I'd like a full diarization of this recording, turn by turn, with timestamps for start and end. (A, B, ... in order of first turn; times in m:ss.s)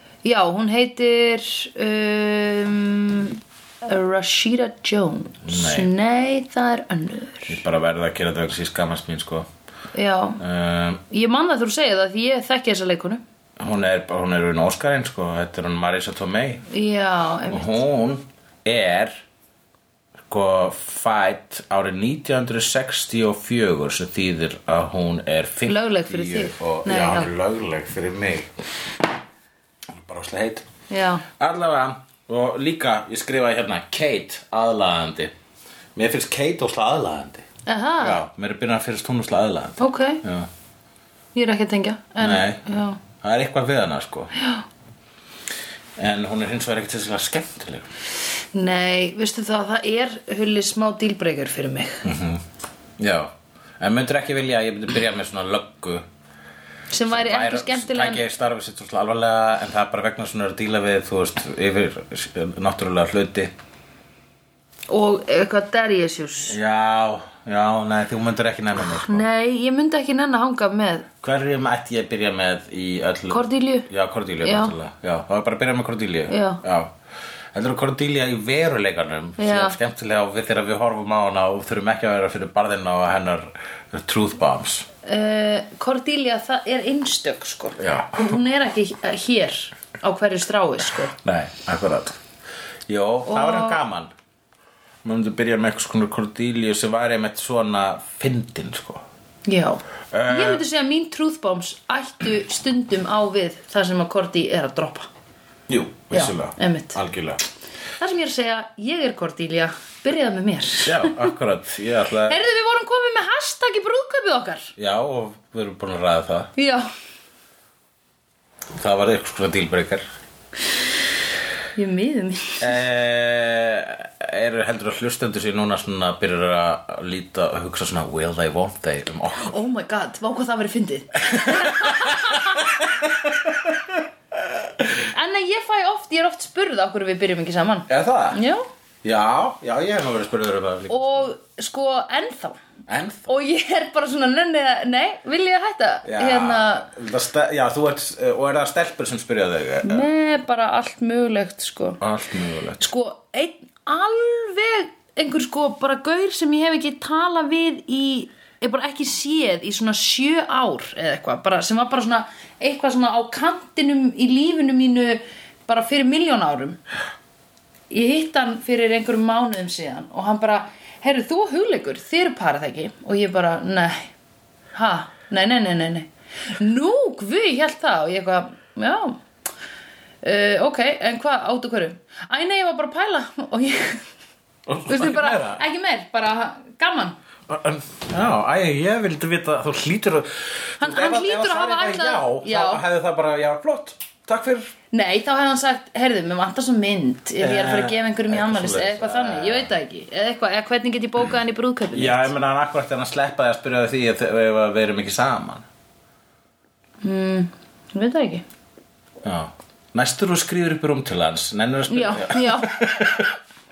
0:00.2-0:07.6 A
0:05.4-0:05.9 B
0:07.5-0:09.5 B
0:09.9-0:10.4 A
0:10.4-0:11.0 B
0:11.1-0:13.2 A
0:13.6-0:16.6 B
0:16.7-0:17.8 A
0:17.5-0:19.2 B
0:20.3-0:28.5 B
0:25.7-0:27.3 A
0:29.9-0:30.7 B
0:30.9-0:31.2 A
0:31.4-0:35.3 B
0:36.0-0:37.4 B
0:37.6-0:38.2 A
0:38.0-0:40.5 B
0:39.8-0:40.2 A
0:41.3-0:43.0 A
0:42.2-0:44.3 B
0:44.4-0:44.6 A
0:46.0-0:47.9 B
0:48.5-0:52.0 A
0:52.0-0:52.4 B
0:53.0-0:56.0 B
0:56.9-0:58.2 A
0:57.0-1:03.5 B
1:04.9-1:06.6 A
1:06.5-1:09.2 B
1:09.0-1:11.1 A
1:11.2-1:16.9 B
1:13.3-1:13.9 A
1:14.4-1:14.7 A
1:16.3-1:16.6 A
1:17.5-1:24.9 B
1:19.4-1:19.8 A
1:25.0-1:31.2 A
1:27.8-1:28.4 B
1:31.2-1:32.2 B
1:32.9-1:34.1 B
1:33.2-1:33.8 A
1:35.0-1:39.0 B
1:39.4-1:45.1 A
1:40.1-1:40.6 B
1:45.7-1:47.4 B
1:46.1-1:47.0 A
1:48.0-1:51.3 A
1:50.8-1:52.4 B
1:52.3-1:54.7 A
1:54.8-1:56.5 B
1:56.6-1:56.9 A
1:58.7-2:00.0 B
2:01.8-2:02.7 A
2:02.6-2:09.6 B
2:09.4-2:12.8 A
2:11.2-2:14.9 B
2:15.0-2:18.6 A
2:17.9-2:18.4 B
2:19.0-2:21.3 B
2:20.9-2:22.6 A
2:22.9-2:23.3 B
2:23.3-2:26.9 A
2:26.0-2:30.0 B
2:29.8-2:32.0 A
2:32.0-2:32.9 B
2:32.8-2:46.8 A
2:47.9-2:54.1 A
2:54.7-2:59.2 A
3:00.2-3:04.0 A
3:04.7-3:05.6 B
3:04.9-3:07.2 A
3:07.5-3:14.7 B
3:10.8-3:12.8 A
3:14.9-3:22.3 A
3:17.4-3:19.7 B
3:21.9-3:25.6 B
3:27.0-3:28.4 A
3:29.2-3:33.4 B
3:31.9-3:32.8 A